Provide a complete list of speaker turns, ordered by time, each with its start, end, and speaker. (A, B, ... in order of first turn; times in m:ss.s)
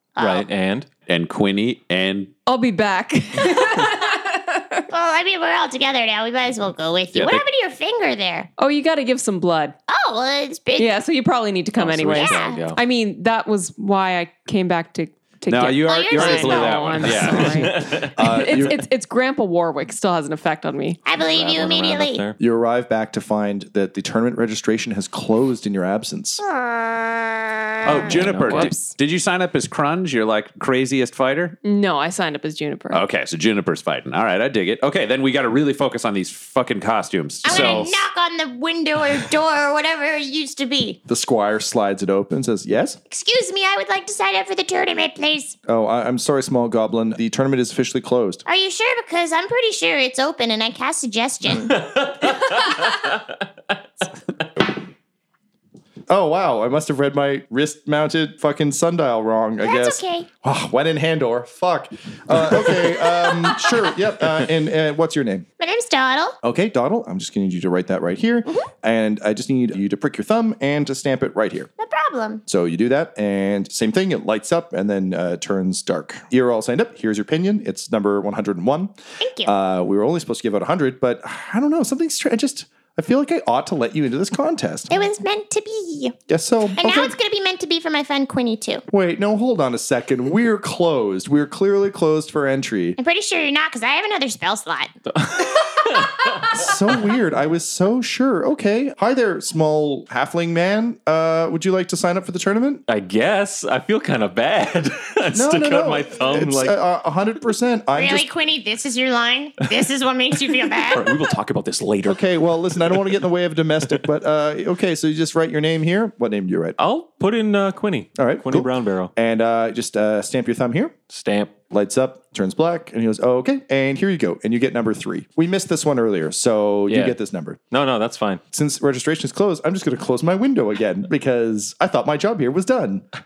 0:00.2-0:00.5 A
0:00.2-0:00.9 B
0:01.1-0:02.3 C
0:02.5-0:04.9 D
0:04.9-0:08.5 A
0:07.1-0:07.4 C
0:08.6-0:09.8 D
0:09.9-0:11.0 A
0:10.8-0:21.0 D
0:11.8-0:12.8 B
0:12.2-0:12.6 A
0:15.5-0:17.7 C
0:15.9-0:16.9 A
0:17.3-0:18.2 B
0:18.1-0:18.8 E
0:21.0-0:22.2 A
0:21.1-0:22.4 B
0:22.4-0:26.4 E
0:26.4-0:28.1 A
0:27.8-0:31.6 C
0:27.9-0:28.9 D
0:28.1-0:28.7 B
0:31.6-0:33.0 D
0:32.9-0:38.0 C
0:37.4-0:41.0 A
0:41.1-0:43.0 E
0:43.1-0:45.6 A
0:45.7-0:48.4 E
0:48.5-0:52.1 A
0:52.2-0:53.2 B
0:56.1-1:05.5 E
0:59.6-1:00.3 A
1:05.6-1:06.4 A
1:06.4-1:11.7 E
1:11.8-1:12.4 A
1:12.5-1:25.0 E
1:19.2-1:19.5 A
1:24.9-1:26.2 A
1:26.3-1:27.2 E
1:26.8-1:28.8 A
1:28.9-1:33.0 E
1:33.0-1:34.9 A
1:35.1-1:36.4 B
1:36.4-1:42.8 E
1:42.9-1:46.8 B
1:45.3-1:48.3 E
1:47.9-1:51.2 A
1:50.9-1:53.2 B
1:52.0-1:56.8 E
1:56.8-1:59.1 B
1:58.2-2:01.0 E
2:01.1-2:01.5 B
2:01.7-2:07.6 E
2:06.9-2:07.2 B
2:07.7-2:08.4 B
2:08.5-2:13.1 E